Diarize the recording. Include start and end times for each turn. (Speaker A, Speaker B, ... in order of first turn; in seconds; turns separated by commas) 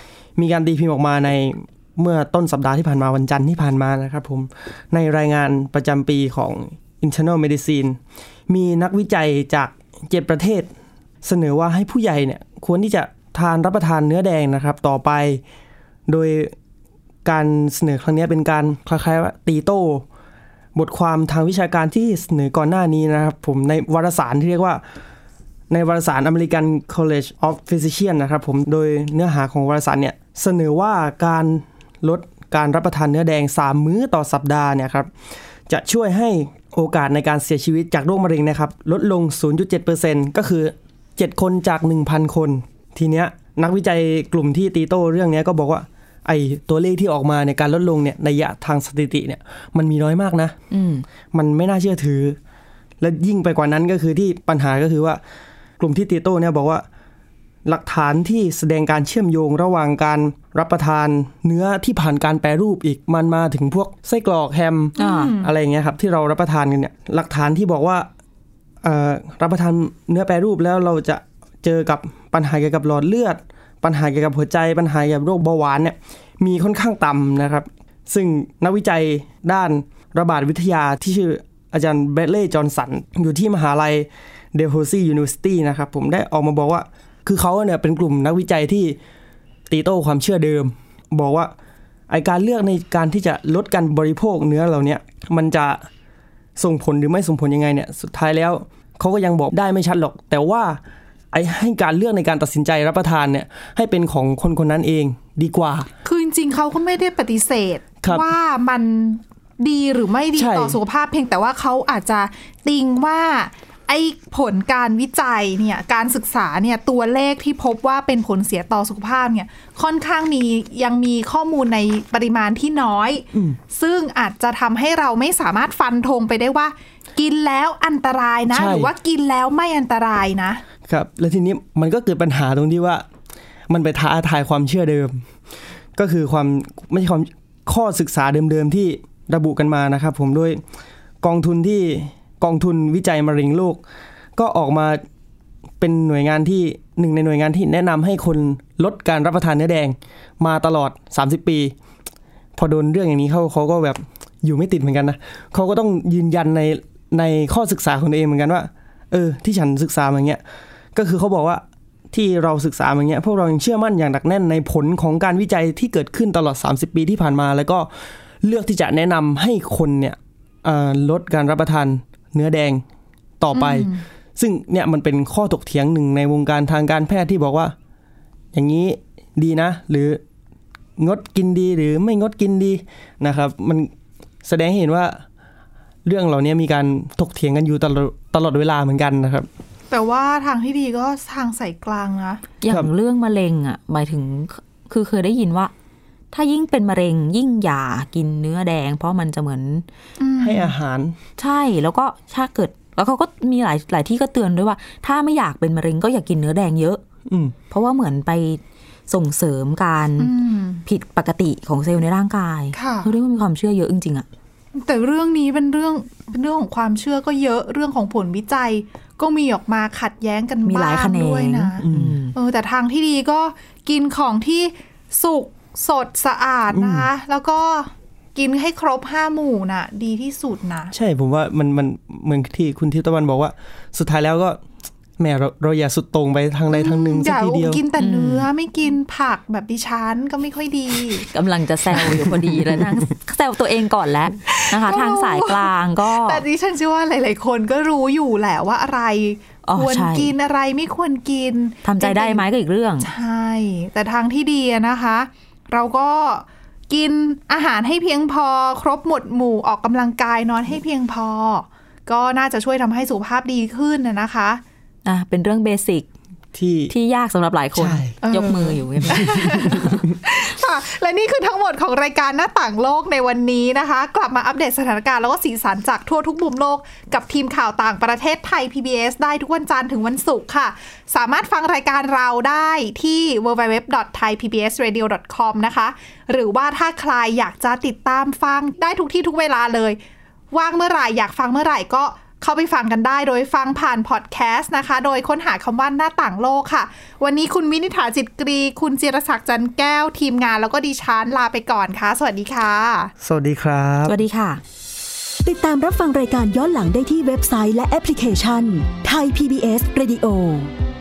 Speaker A: 0.4-10.7, Speaker A: 11.2-15.4, Speaker A: 16.1-16.6, Speaker A: 17.2-20.1, Speaker A: 20.8-24.8, Speaker A: 25.7-35.1, Speaker A: 35.7-50.6, Speaker B: 50.7-51.0, Speaker A: 51.3-52.4, Speaker A: 53.0-55.2, Speaker A: 55.8-56.9, Speaker A: 57.7-68.1, Speaker B: 65.0-65.3, Speaker C: 65.0-65.5, Speaker A: 68.8-89.0, Speaker A: 89.7-91.5, Speaker A: 92.1-95.8, Speaker A: 96.6-100.8, Speaker A: 101.3-105.9, Speaker C: 106.0-130.7, Speaker A: 110.4-110.8, Speaker A: 123.3-123.6, Speaker A: 128.5-128.9, Speaker A: 130.9-133.1, Speaker A: 133.7-135.3, Speaker A: 136.0-140.6, Speaker A: 141.2-143.8, Speaker A: 144.4-145.0, Speaker A: 145.8-151.8, Speaker A: 152.6-160.4, Speaker A: 160.9-167.9, Speaker A: 168.4-172.8, Speaker A: 173.4-177.8, Speaker C: 173.5-174.0, Speaker A: 178.5-180.2, Speaker A: 181.0-183.9, Speaker A: 184.4-185.2, Speaker A: 186.1-189.5, Speaker C: 189.9-192.4, Speaker B: 192.6-195.7, Speaker B: 196.3-199.8, Speaker C: 200.2-200.7, Speaker A: 200.4-201.2, Speaker B: 201.4-207.0, Speaker A: 207.3-207.6, Speaker B: 207.7-210.3, Speaker C: 210.2-210.8, Speaker B: 210.9-214.3, Speaker C: 212.7-213.1, Speaker C: 214.7-230.9, Speaker B: 220.7-222.3, Speaker A: 221.8-222.2, Speaker A: 226.7-227.1, Speaker A: 230.9-234.6, Speaker A: 235.2-237.8, Speaker C: 236.7-241.3, Speaker B: 238.0-238.5, Speaker B: 241.3-246.4, Speaker A: 242.4-242.8, Speaker C: 244.5-252.4, Speaker B: 249.7-250.3, Speaker B: 251.8-253.1, Speaker C: 253.0-264.6, Speaker B: 265.1-266.1, Speaker A: 266.5-266.9, Speaker B: 266.9-270.0, Speaker A: 267.8-268.1, Speaker C: 268.2-290.0, Speaker A: 269.0-270.1, Speaker C: 290.5-303.1, Speaker A: 303.2-304.2, Speaker B: 304.1-304.6, Speaker D: 305.4-310.7